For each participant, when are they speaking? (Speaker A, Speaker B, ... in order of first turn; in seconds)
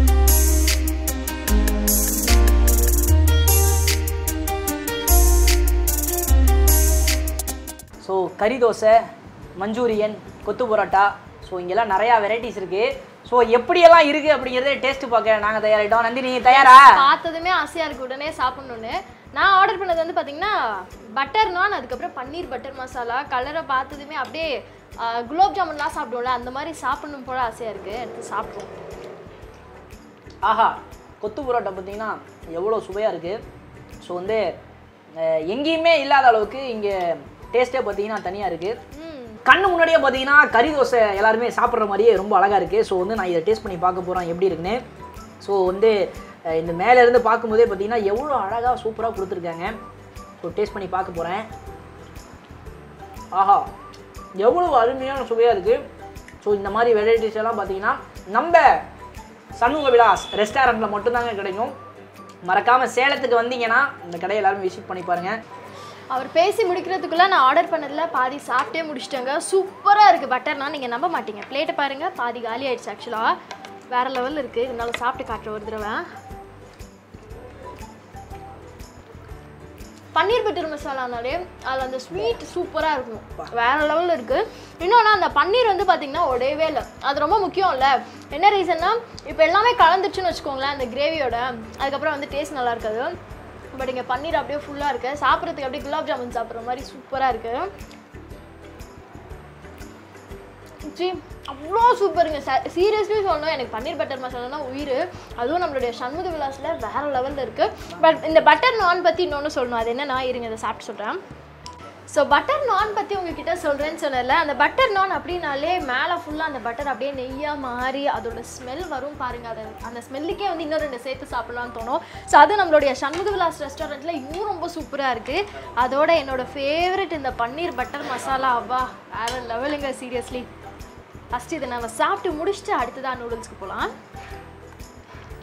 Speaker A: 8.0-9.0, 9.6-16.9, 30.4-33.4, 34.0-34.4, 35.2-38.8, 39.5-44.8, 45.4-46.0, 46.5-49.7, 50.4-51.5, 53.3-53.6, 54.4-55.8, 56.4-58.6, 59.6-61.7, 62.4-65.3
Speaker B: 16.8-28.7, 38.9-39.4, 66.1-73.3, 73.9-76.0, 80.1-93.1, 93.7-97.7, 100.8-111.2, 112.1-130.5, 131.3-133.9